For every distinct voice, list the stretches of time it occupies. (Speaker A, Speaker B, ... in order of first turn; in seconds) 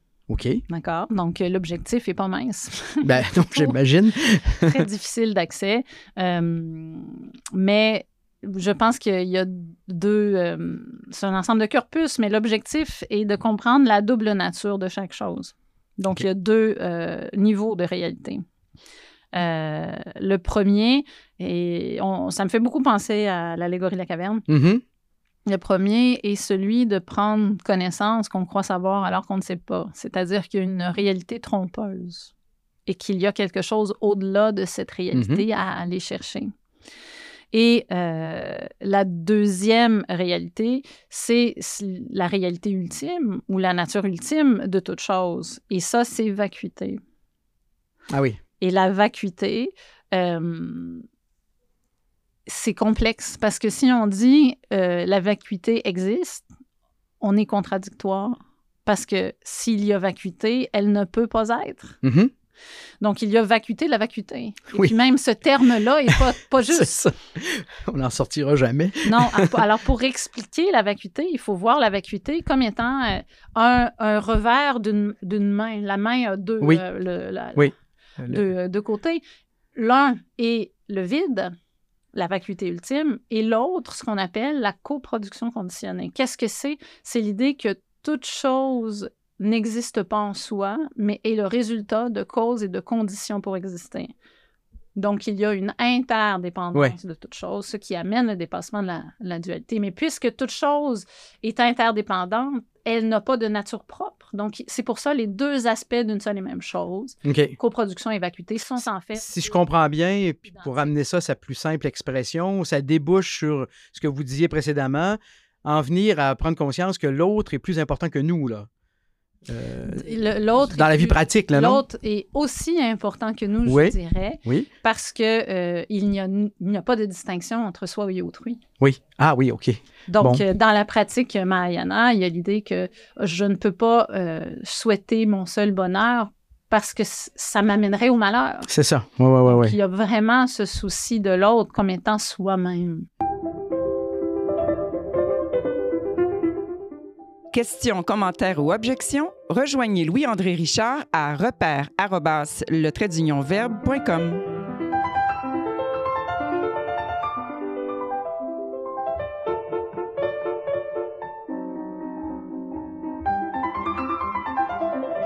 Speaker A: 0.3-0.6, 3.0-4.8, 24.5-24.8, 35.1-35.4, 48.1-48.4, 62.0-62.3, 66.1-69.5, 77.6-78.4, 107.2-107.6, 109.2-118.7, 119.5-121.8, 123.7-124.7, 128.8-130.4, 138.7-139.8
Speaker B: 0.7-3.8, 4.6-18.4, 19.3-24.5, 25.5-32.3, 32.9-36.5, 37.5-47.0, 48.6-51.0, 52.5-56.5, 57.2-62.0, 63.0-67.0, 69.0-77.7, 78.3-79.2, 79.8-81.5, 82.1-94.1, 95.0-109.7, 110.5-110.9, 119.8-128.6, 130.1-138.7, 139.4-143.1
Speaker C: 147.5-154.4